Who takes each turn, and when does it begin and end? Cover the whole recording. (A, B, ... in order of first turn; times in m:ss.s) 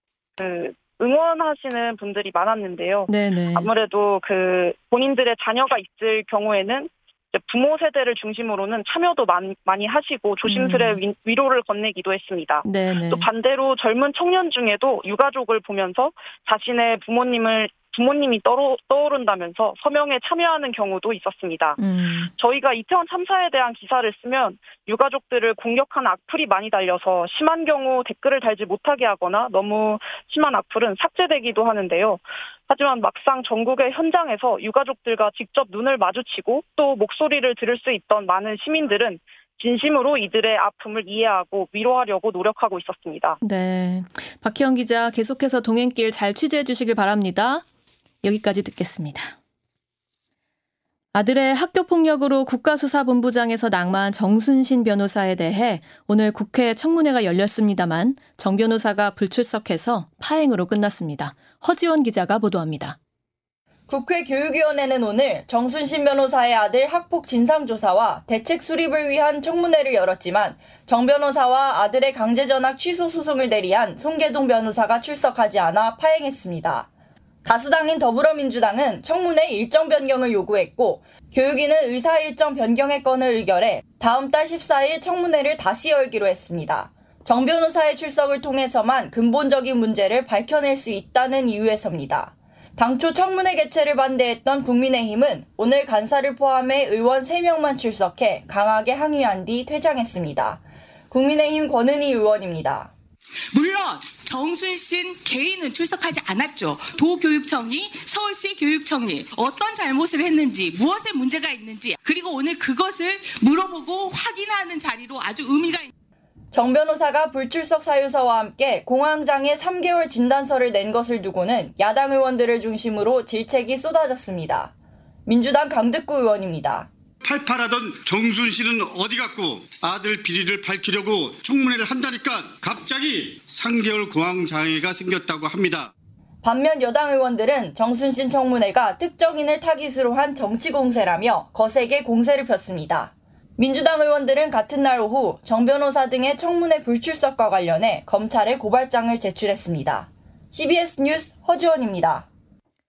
0:00.4-0:21.8 A
0:03.1-0:03.7 B
0:10.5-0:11.0 B
0:12.6-0:13.3 B
0:21.8-0:22.3 B
0:22.4-0:43.4 A
0:43.4-0:47.6 B
0:48.2-0:49.4 B
0:51.1-1:03.0 B
1:03.9-1:16.9 C
1:17.4-1:42.9 C
1:43.5-1:55.9 D
1:56.5-2:04.7 C
2:05.3-2:06.9 C
2:07.2-2:15.9 E
2:16.4-2:32.3 C